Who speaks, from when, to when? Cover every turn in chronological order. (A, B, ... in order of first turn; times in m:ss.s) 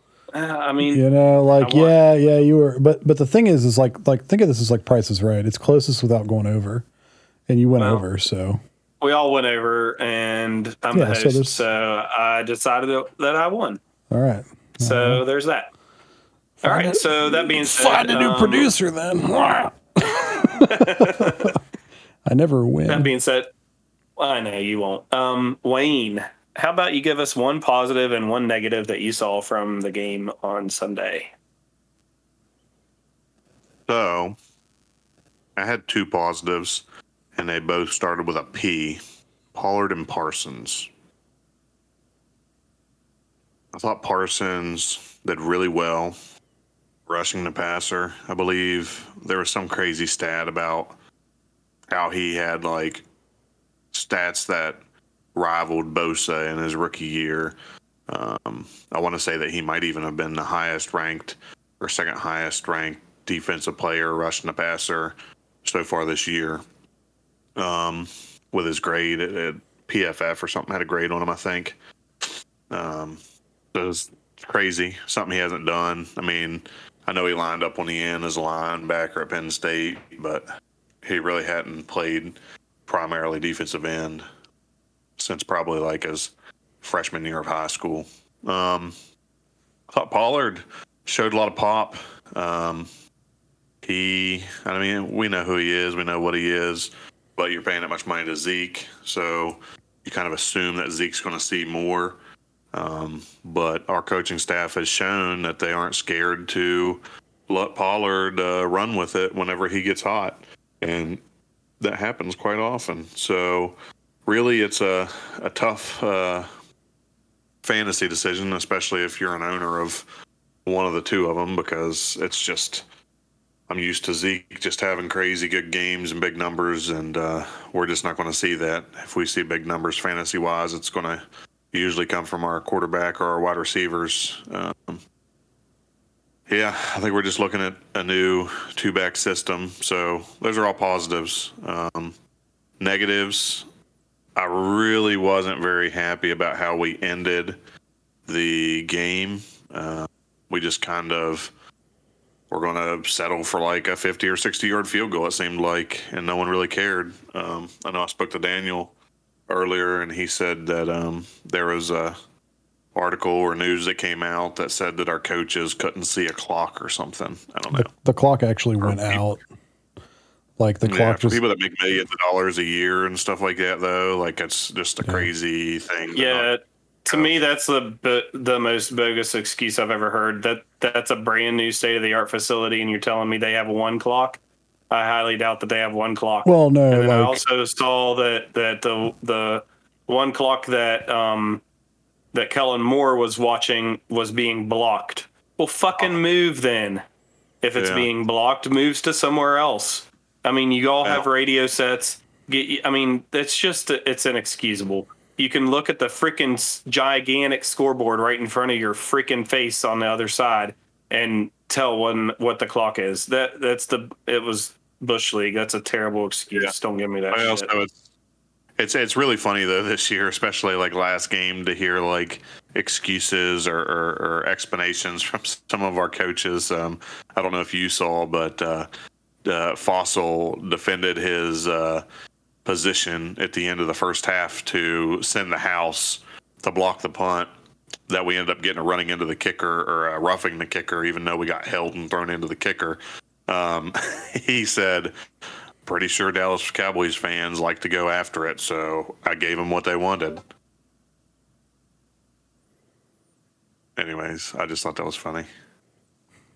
0:00.3-0:01.0 A
0:00.8-0:06.8 B
0:01.6-0:02.0 A
0:07.5-0:08.6 B
0:07.8-0:08.0 A
0:09.0-0:13.8 A
0:10.9-0:11.6 B
0:14.1-0:15.2 B
0:14.8-0:15.7 A
0:16.6-0:21.6 B
0:16.6-0:18.7 A
0:20.6-0:21.6 A
0:22.2-0:23.1 B
0:22.9-0:23.5 A
0:24.2-0:31.3 A
0:33.9-0:34.4 C
0:35.6-0:36.8 C
0:37.4-0:39.0 C
0:39.5-0:40.9 C
0:43.7-0:46.2 C
0:47.1-0:51.0 C
0:51.9-0:53.0 C
0:53.9-0:54.8 C
0:55.4-0:57.6 C
0:58.1-1:06.6 C
1:07.6-1:11.8 C
1:12.7-1:13.2 C
1:13.7-1:20.5 C
1:21.0-1:24.2 C
1:25.2-1:28.9 C
1:29.9-1:32.9 C
1:33.8-1:42.2 C
1:42.7-1:51.2 C
1:51.8-1:53.8 C
1:54.3-1:56.5 C
1:57.6-2:00.1 C
2:00.7-2:02.8 C
2:03.7-2:15.0 C
2:16.5-2:22.1 C
2:22.8-2:23.7 C
2:24.4-2:27.6 C
2:28.3-2:31.5 C
2:32.5-2:38.9 C
2:39.5-2:42.2 C
2:43.0-2:47.9 C
2:47.7-2:49.4 B
2:48.8-2:49.2 C
2:50.6-2:51.4 B
2:50.9-2:56.5 C
2:56.2-3:04.4 A
3:04.9-3:11.6 A
3:06.4-3:07.4 B
3:12.3-3:17.0 A
3:17.6-3:37.7 A
3:17.8-3:18.1 C
3:37.3-3:38.0 C
3:38.8-3:48.9 C
3:49.4-3:52.0 C
3:52.6-3:57.5 C
3:58.1-4:05.1 C
4:05.9-4:10.4 C
4:14.0-4:15.5 C